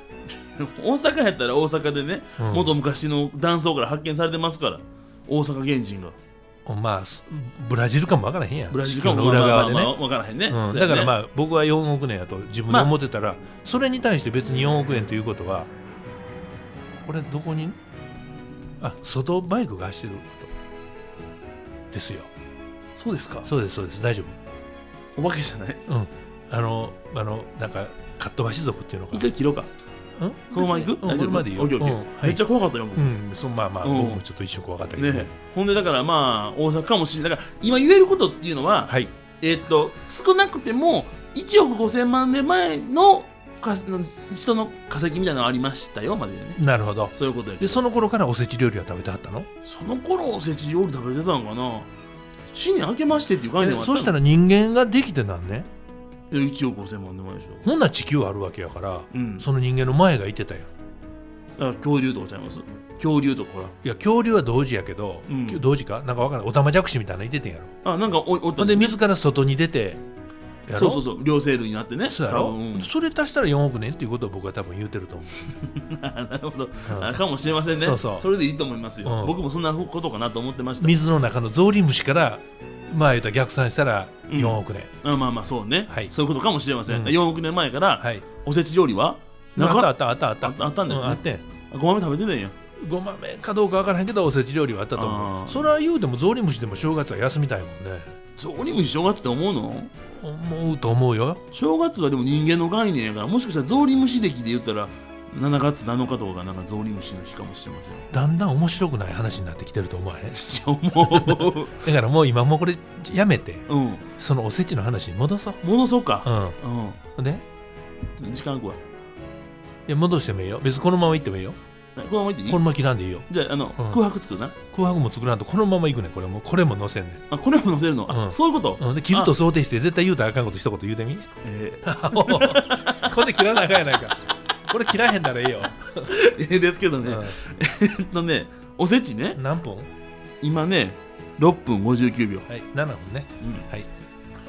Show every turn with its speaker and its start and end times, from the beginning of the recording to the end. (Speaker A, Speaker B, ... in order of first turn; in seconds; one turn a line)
Speaker A: 0.3-6.2
Speaker B: 2.4-2.7
Speaker B: 6.7-9.9
Speaker A: 8.7-11.2
Speaker B: 10.5-15.7
Speaker B: 17.0-17.8
Speaker B: 18.8-20.5
Speaker B: 21.9-22.3
Speaker A: 23.0-23.5
Speaker B: 23.4-24.4
Speaker A: 25.2-25.8
Speaker B: 25.9-29.3
Speaker A: 29.1-29.7
Speaker B: 30.2-32.4
Speaker A: 30.5-33.1
Speaker B: 33.0-35.3
Speaker A: 33.8-34.2
Speaker A: 35.0-46.6
Speaker B: 38.9-39.1
Speaker B: 46.6-49.5
Speaker A: 47.1-47.8
Speaker A: 49.6-51.9
Speaker A: 52.5-54.2
Speaker B: 53.6-55.7
Speaker A: 56.3-57.7
Speaker B: 57.6-60.7
Speaker A: 59.1-59.5
Speaker A: 61.6-63.7
Speaker B: 63.8-67.7
Speaker A: 65.3-65.6
Speaker A: 67.8-69.0
Speaker B: 68.6-70.0
Speaker B: 70.7-71.0
Speaker A: 70.7-72.9
Speaker B: 72.1-75.5
Speaker A: 75.5-81.0
Speaker B: 76.9-78.3
Speaker B: 79.0-79.4
Speaker B: 80.8-84.9
Speaker A: 84.3-92.5
Speaker B: 86.9-87.2
Speaker B: 89.6-91.4
Speaker B: 92.8-98.1
Speaker A: 95.0-95.7
Speaker A: 98.4-99.9
Speaker B: 100.1-101.4
Speaker A: 101.5-108.1
Speaker B: 108.1-113.7
Speaker A: 110.3-111.8
Speaker A: 113.7-114.1
Speaker B: 114.2-115.6
Speaker A: 115.6-117.0
Speaker B: 116.2-116.6
Speaker B: 117.2-117.4
Speaker A: 118.2-118.8
Speaker B: 119.9-121.6
Speaker A: 122.0-122.7
Speaker B: 122.5-124.0
Speaker A: 123.3-124.6
Speaker B: 124.7-127.2
Speaker A: 127.3-129.4
Speaker B: 128.1-131.3
Speaker A: 131.4-133.4
Speaker B: 131.8-136.1
Speaker A: 136.1-139.4
Speaker B: 137.0-137.4
Speaker B: 139.3-139.9
Speaker A: 140.4-142.5
Speaker B: 142.5-143.9
Speaker A: 143.4-143.7